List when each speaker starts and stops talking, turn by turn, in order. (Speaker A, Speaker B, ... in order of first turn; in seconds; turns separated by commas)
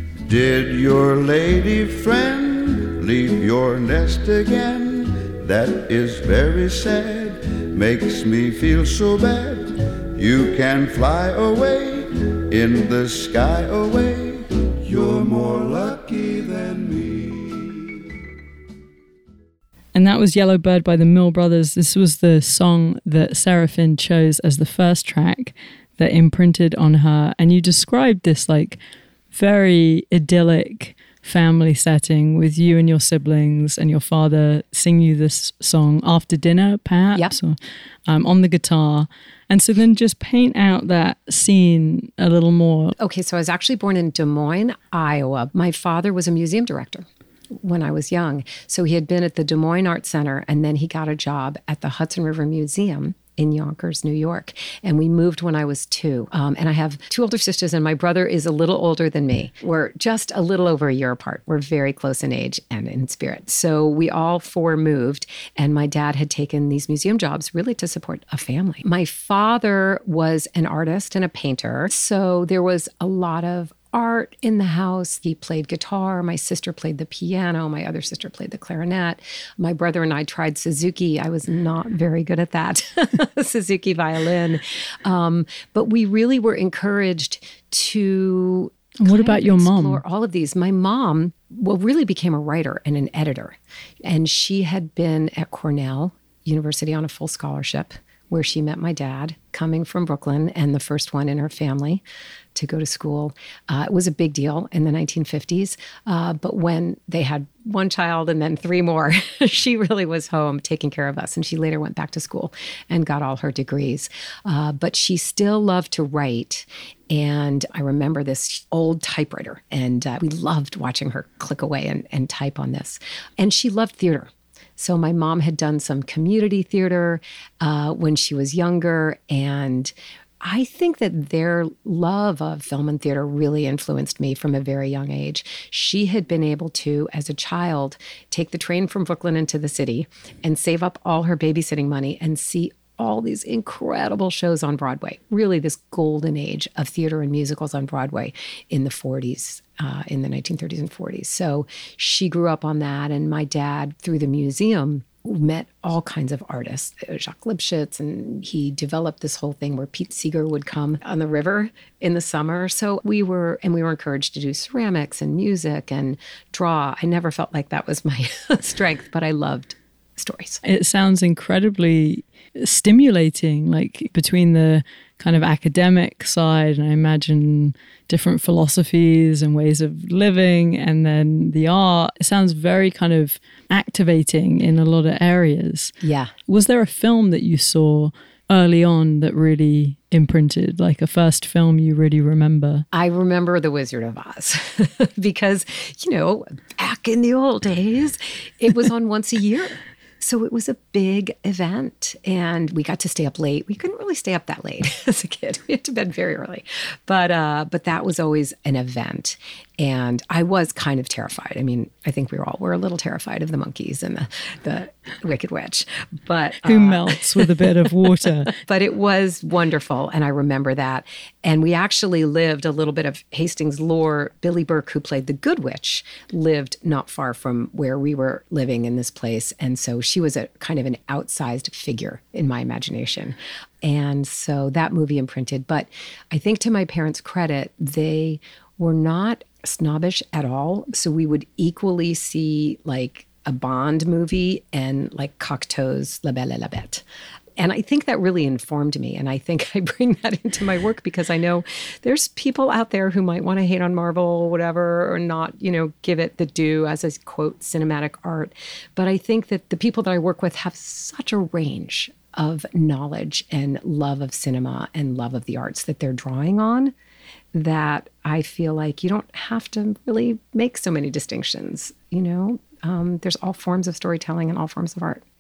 Speaker A: 0.2-18.0, Speaker B: 19.9-28.8, Speaker B: 29.3-42.9, Speaker C: 43.0-102.0, Speaker B: 89.0-90.0, Speaker C: 102.5-170.6, Speaker B: 170.6-185.9, Speaker C: 186.0-186.3, Speaker B: 186.5-192.9, Speaker C: 192.9-247.0, Speaker B: 216.6-218.5, Speaker C: 247.6-266.9, Speaker C: 267.5-275.2